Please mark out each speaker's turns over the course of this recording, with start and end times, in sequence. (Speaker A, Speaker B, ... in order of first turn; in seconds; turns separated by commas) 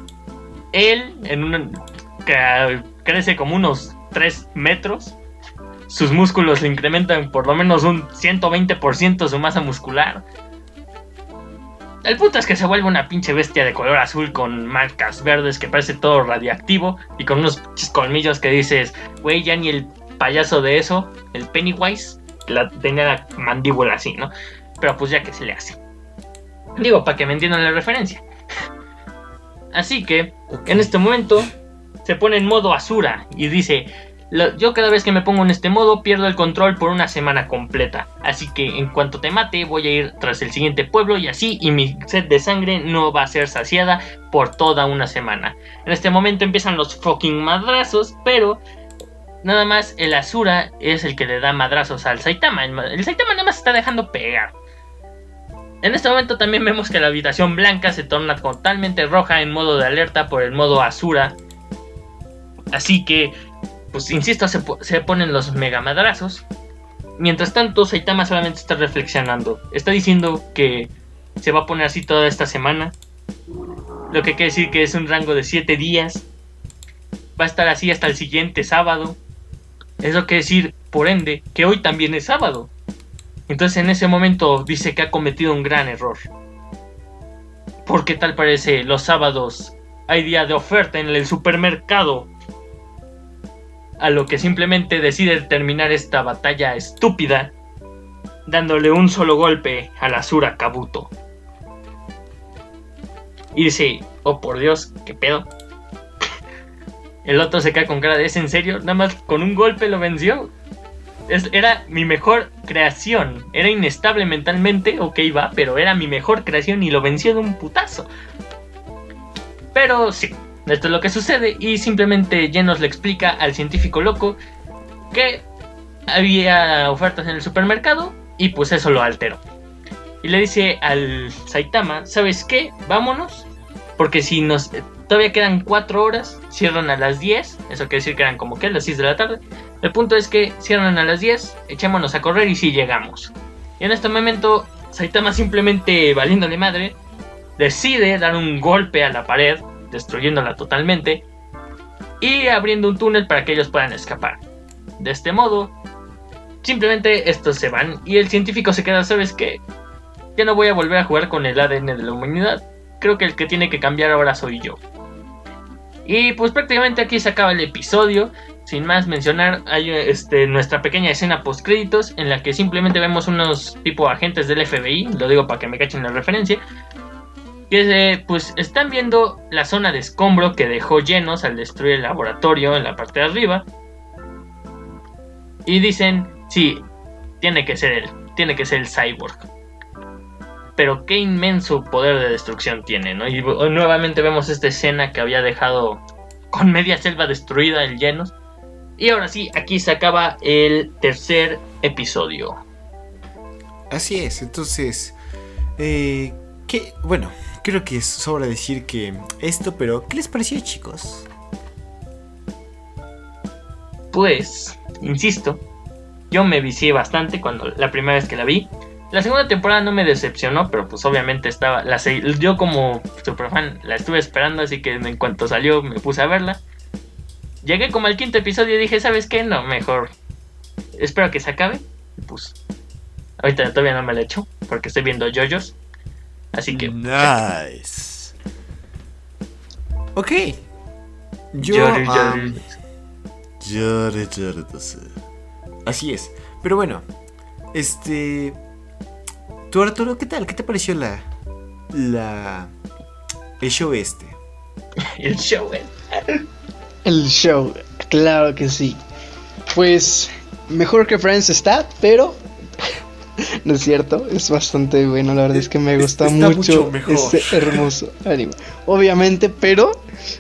Speaker A: 0.7-5.2, Speaker A: 5.9-10.2, Speaker A: 12.0-25.8, Speaker A: 26.8-28.2, Speaker A: 29.7-31.5, Speaker B: 30.5-30.9, Speaker A: 32.0-48.6, Speaker A: 49.4-54.5, Speaker A: 55.8-61.4, Speaker A: 62.7-63.3, Speaker A: 63.9-66.5, Speaker A: 67.2-73.0, Speaker A: 74.1-76.2, Speaker A: 77.4-79.2, Speaker A: 80.0-82.7, Speaker A: 83.5-86.3, Speaker A: 87.8-92.3, Speaker A: 94.0-97.5, Speaker A: 98.5-101.1, Speaker A: 103.5-105.5, Speaker A: 107.2-110.5, Speaker A: 111.3-118.1, Speaker A: 119.7-124.4, Speaker A: 125.1-125.5, Speaker A: 126.1-129.4, Speaker A: 130.2-147.0, Speaker A: 147.6-151.2, Speaker A: 152.2-154.4, Speaker A: 155.0-155.7, Speaker A: 156.6-159.6, Speaker A: 160.4-164.8, Speaker A: 166.1-176.6, Speaker A: 177.7-183.7, Speaker A: 185.7-186.9, Speaker A: 187.4-189.5, Speaker A: 190.8-198.3, Speaker A: 199.0-202.6, Speaker B: 203.9-205.2, Speaker B: 205.8-211.3, Speaker A: 214.1-215.6, Speaker A: 216.3-226.6, Speaker A: 227.6-230.1, Speaker A: 231.0-232.6, Speaker A: 233.4-235.8, Speaker A: 236.5-237.3, Speaker B: 236.7-238.3, Speaker B: 240.2-240.6, Speaker B: 241.5-242.6, Speaker A: 241.6-242.8, Speaker B: 243.6-245.2, Speaker B: 245.9-247.1, Speaker B: 247.7-248.6, Speaker B: 249.7-251.3, Speaker B: 251.9-252.7, Speaker B: 253.6-254.4, Speaker A: 255.2-256.4, Speaker C: 257.1-259.0, Speaker C: 259.7-262.4, Speaker C: 263.6-270.0, Speaker B: 266.0-267.9